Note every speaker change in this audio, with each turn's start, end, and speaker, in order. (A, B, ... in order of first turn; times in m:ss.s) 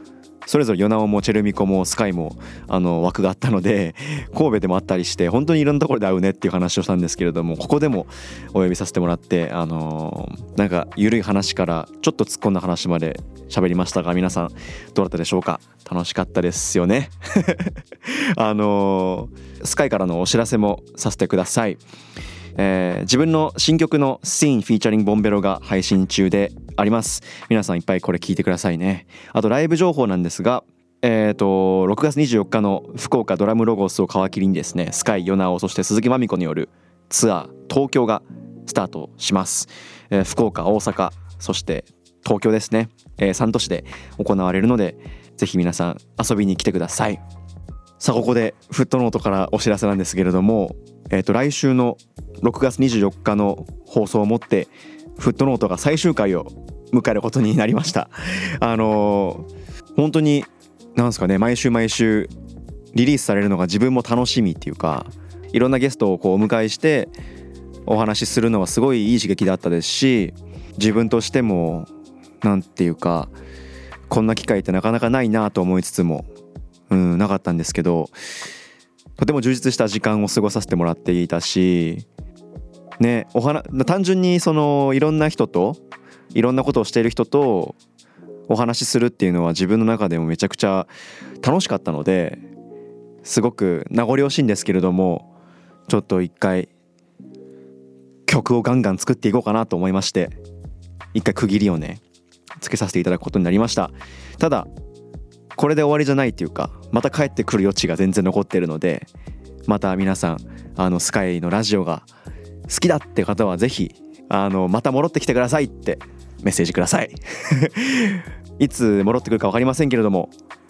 0:00.5-0:21.8 A
0:22.6-0:47.2 A
0:48.0-1:02.3 A
1:02.9-1:07.1 A
1:07.9-1:11.9 A
1:12.4-1:13.3 A
1:14.1-1:16.3 A
1:16.9-1:18.1 A
1:19.2-1:22.1 A
1:23.0-1:25.8 A
1:26.3-1:27.8 A
1:28.5-1:30.9 A
1:31.4-1:32.4 A
1:33.2-1:35.3 A
1:35.9-1:36.7 A
1:38.3-1:40.4 A
1:41.1-1:42.0 A
1:42.6-1:44.7 A
1:45.6-1:49.1 A
1:49.7-1:52.1 A
1:52.7-2:00.3 A